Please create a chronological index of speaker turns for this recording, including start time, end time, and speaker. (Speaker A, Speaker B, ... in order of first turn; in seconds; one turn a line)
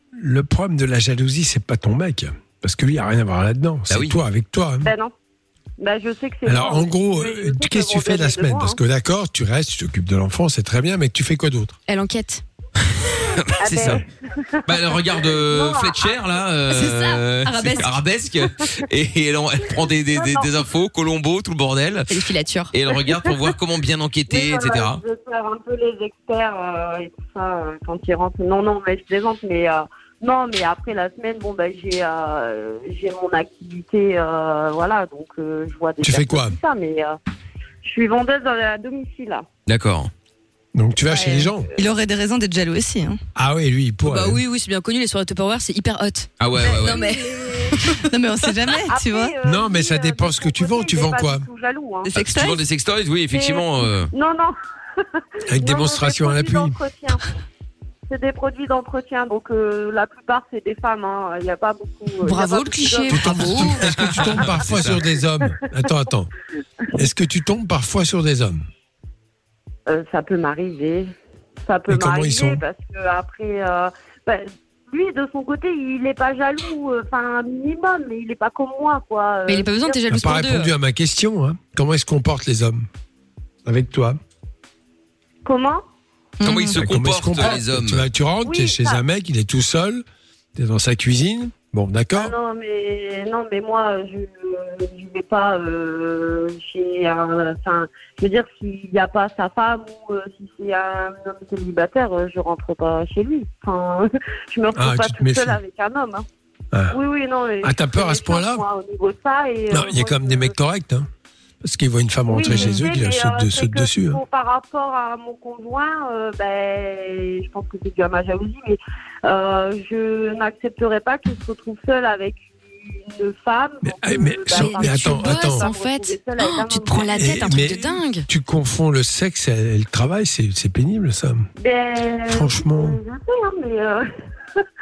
Speaker A: 0.1-4.9
Speaker B: 3.9-4.2
Speaker C: 4.8-5.1
Speaker C: 5.8-8.8
Speaker A: 6.4-11.8
Speaker D: 11.9-12.4
Speaker B: 13.0-14.0
Speaker C: 13.6-16.4
Speaker B: 14.7-22.1
Speaker D: 16.7-17.9
Speaker C: 20.1-20.5
Speaker D: 22.1-22.7
Speaker B: 22.7-25.0
Speaker C: 24.3-37.2
Speaker A: 36.0-36.5
Speaker C: 37.8-39.5
Speaker B: 39.7-40.1
Speaker A: 40.7-41.7
Speaker E: 41.1-43.2
Speaker A: 43.4-44.4
Speaker D: 44.0-48.0
Speaker B: 46.4-47.0
Speaker C: 46.6-47.8
Speaker E: 48.1-49.3
Speaker C: 48.9-52.1
Speaker A: 49.4-51.5
Speaker E: 52.0-52.6
Speaker B: 52.1-54.1
Speaker C: 53.3-54.5
Speaker A: 55.5-56.8
Speaker C: 55.6-57.2
Speaker C: 58.1-63.8
Speaker D: 62.2-63.9
Speaker A: 63.1-66.3
Speaker B: 63.9-65.0
Speaker A: 66.9-68.6
Speaker C: 69.9-71.1
Speaker C: 71.7-80.1
Speaker A: 71.9-72.6
Speaker D: 79.5-80.7
Speaker A: 80.1-82.9
Speaker A: 83.6-84.2
Speaker C: 85.4-85.8
Speaker E: 86.4-86.8
Speaker B: 86.4-88.0
Speaker A: 86.7-90.0
Speaker C: 88.4-89.0
Speaker A: 90.5-92.3
Speaker C: 92.1-106.2
Speaker A: 104.7-105.6
Speaker A: 106.7-107.0
Speaker C: 106.9-110.5
Speaker A: 107.6-108.6
Speaker A: 109.7-111.1
Speaker A: 111.6-114.2
Speaker C: 112.3-127.5
Speaker E: 112.5-112.8
Speaker A: 123.8-125.7
Speaker D: 124.5-128.2
Speaker A: 127.2-131.5
Speaker C: 131.6-134.1
Speaker A: 132.3-133.0